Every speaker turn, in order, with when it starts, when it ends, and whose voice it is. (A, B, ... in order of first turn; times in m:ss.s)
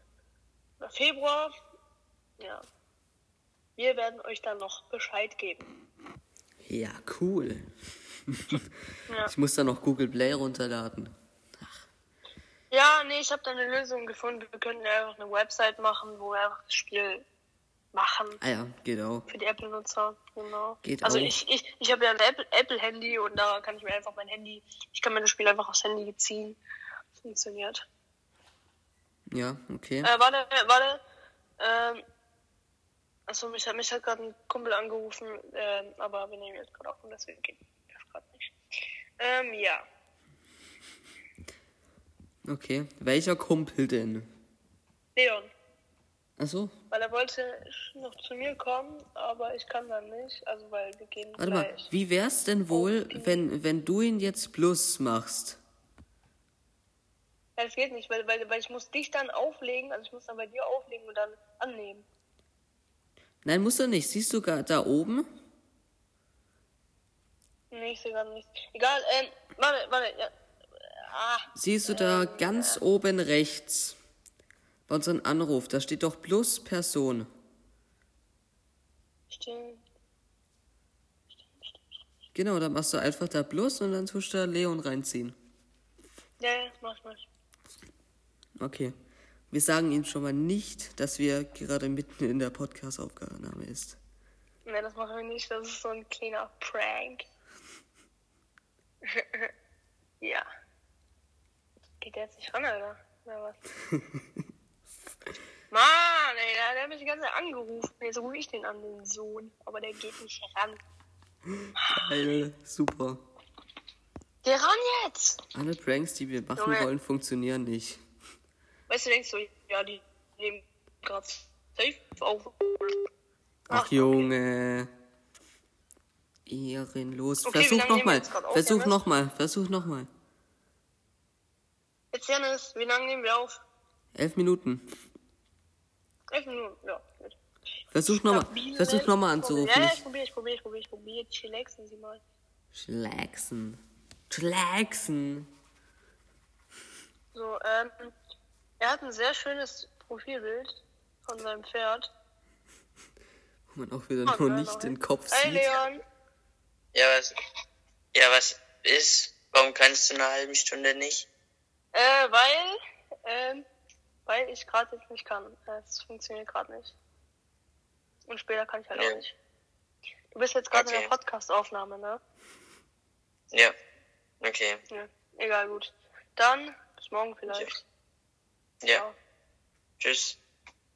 0:00.8-0:01.6 A
0:02.4-0:02.6 A
0:03.8-0:05.7 A
0:06.6-0:07.7 B
0:08.3-0:08.7 B
0:09.2-0:11.8 B
0:12.7-0:17.2 A
0:17.9-0:18.4 A
0:18.4-0:19.3 B
0:19.3-0:26.6 A
0:20.8-0:21.3 B
0:27.2-0:27.8 A
0:29.3-0:30.1 B
0:30.0-0:31.0 A
0:31.6-0:32.0 A
0:33.3-0:38.5 A
0:39.2-0:39.8 A
0:42.4-0:44.3 B
0:45.1-0:45.5 A
0:46.4-0:46.7 B
0:46.9-0:51.9 A
0:51.4-0:55.6 B
0:52.7-0:53.4 A
0:57.6-1:02.0 A
1:03.4-1:05.2 B
1:07.7-1:12.8 A
1:11.5-1:14.0 B
1:14.9-1:17.3 B
1:19.3-1:19.8 A
1:21.3-1:21.8 A
1:22.3-1:25.4 B
1:26.4-1:27.3 A
1:28.6-1:28.9 B
1:29.5-1:34.0 B
1:34.6-1:37.2 A
1:39.0-1:39.5 A
1:42.0-1:43.6 A
1:43.9-1:44.2 B
1:45.7-1:50.8 A
1:51.6-1:53.2 B
1:51.8-1:52.1 A
1:54.4-1:55.4 A
1:55.5-1:58.0 B
1:56.6-1:56.9 A
1:58.9-2:03.0 A
2:03.7-2:04.3 A
2:03.7-2:04.9 B
2:06.5-2:10.1 B
2:07.4-2:08.9 A
2:12.1-2:13.6 A
2:14.1-2:14.8 B
2:16.3-2:17.4 A
2:17.9-2:20.0 B
2:18.0-2:22.2 A
2:22.7-2:25.5 B
2:27.3-2:28.1 A
2:28.8-2:32.1 A
2:33.7-2:35.8 B
2:34.2-2:36.0 A
2:36.9-2:37.3 C
2:38.1-2:41.3 C
2:41.9-2:43.6 A
2:44.2-2:46.9 A
2:48.3-2:49.4 A
2:48.9-2:49.2 C
2:50.3-2:52.2 A
2:50.7-2:51.1 C
2:54.4-2:54.8 C
2:54.9-2:57.8 A
2:58.8-2:59.1 A
3:00.0-3:00.4 C